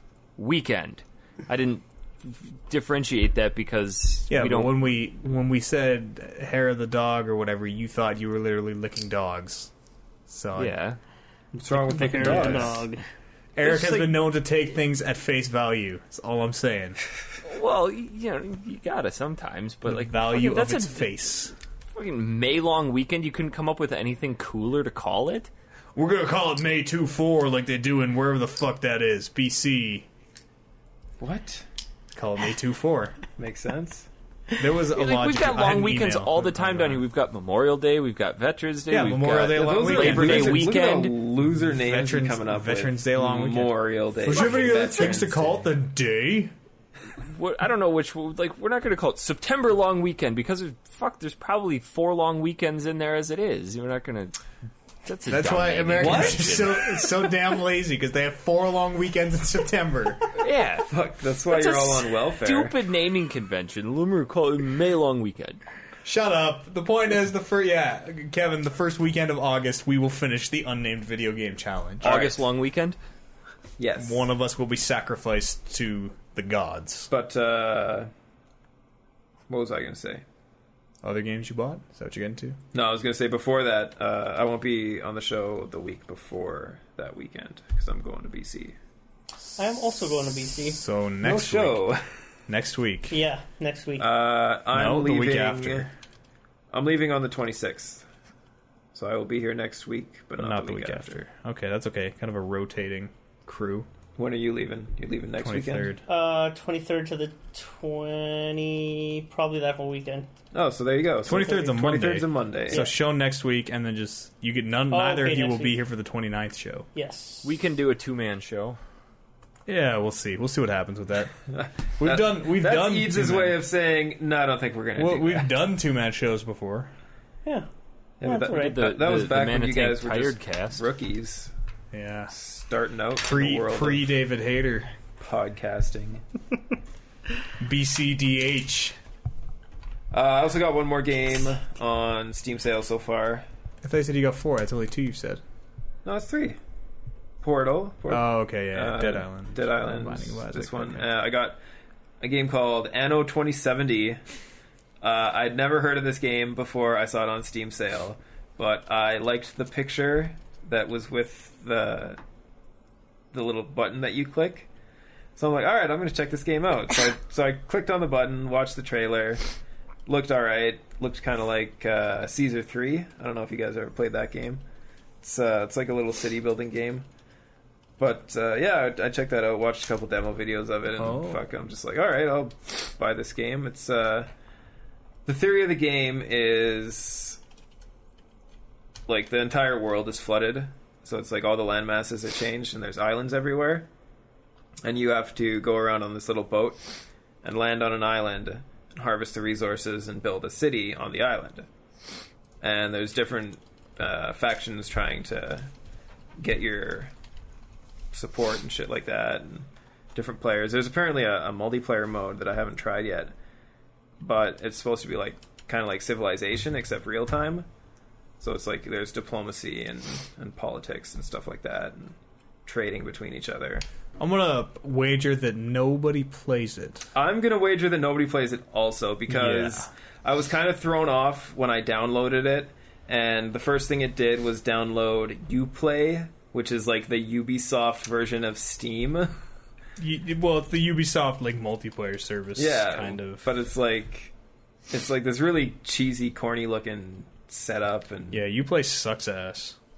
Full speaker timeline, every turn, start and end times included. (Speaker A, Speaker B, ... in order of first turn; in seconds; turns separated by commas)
Speaker A: 0.4-4.8, Speaker B: 4.3-9.7, Speaker B: 10.3-10.7, Speaker A: 10.6-11.0, Speaker C: 11.6-13.0, Speaker D: 11.6-12.8, Speaker B: 12.1-12.8, Speaker B: 13.6-17.0, Speaker A: 13.7-14.1, Speaker A: 17.4-21.1, Speaker B: 19.9-21.5, Speaker A: 21.9-25.5, Speaker B: 25.9-30.1, Speaker D: 31.2-31.6, Speaker B: 32.1-33.2, Speaker D: 33.4-34.1, Speaker B: 34.6-37.0, Speaker A: 34.9-41.1, Speaker B: 38.9-40.8, Speaker D: 39.5-45.7, Speaker B: 41.8-46.5, Speaker A: 47.2-54.4, Speaker A: 55.0-57.1, Speaker B: 55.3-60.4, Speaker D: 56.0-56.8, Speaker A: 60.4-60.9, Speaker D: 60.9-62.8, Speaker A: 61.5-65.6, Speaker B: 66.0-72.2, Speaker D: 72.0-72.5, Speaker A: 72.0-73.0, Speaker D: 73.8-74.2, Speaker B: 74.0-77.1, Speaker D: 77.1-78.1, Speaker D: 79.5-80.2, Speaker B: 81.0-82.6, Speaker D: 82.7-88.8, Speaker C: 89.6-90.8, Speaker B: 90.5-91.8, Speaker D: 91.2-92.1, Speaker B: 92.5-93.2, Speaker C: 93.1-94.1, Speaker D: 94.0-95.9, Speaker B: 94.7-95.9, Speaker D: 96.7-98.0, Speaker D: 98.9-101.2, Speaker B: 100.4-103.9, Speaker D: 104.2-105.9, Speaker B: 105.4-106.0, Speaker C: 106.1-110.3, Speaker D: 110.5-112.8, Speaker B: 111.3-116.9, Speaker C: 114.9-115.8, Speaker C: 117.0-117.5, Speaker A: 117.4-118.8, Speaker B: 119.7-121.4, Speaker D: 121.5-125.5, Speaker B: 122.0-123.6, Speaker B: 125.0-126.9, Speaker D: 128.2-131.5, Speaker C: 128.2-128.9, Speaker A: 128.5-130.8, Speaker B: 131.9-132.3, Speaker D: 132.3-134.1, Speaker B: 133.2-134.9, Speaker D: 135.2-136.2, Speaker B: 137.6-139.0, Speaker D: 140.1-143.4, Speaker B: 143.8-145.4, Speaker D: 146.1-146.6, Speaker D: 147.4-151.6, Speaker B: 148.1-151.1, Speaker D: 152.2-154.2, Speaker D: 155.0-162.2, Speaker D: 163.3-164.7, Speaker D: 165.4-169.4, Speaker D: 170.1-174.6, Speaker D: 175.2-177.1, Speaker D: 178.0-184.3, Speaker B: 181.0-181.4, Speaker D: 185.3-187.4, Speaker D: 189.1-193.9, Speaker D: 194.8-196.8, Speaker D: 197.4-201.7, Speaker D: 202.6-205.7, Speaker D: 206.4-207.1, Speaker D: 208.1-213.3, Speaker D: 214.2-217.7, Speaker D: 218.4-223.8, Speaker B: 224.2-227.1, Speaker D: 227.2-239.3, Speaker B: 229.3-229.9, Speaker B: 240.0-243.5, Speaker D: 242.6-244.3, Speaker D: 244.9-248.4, Speaker B: 248.3-249.8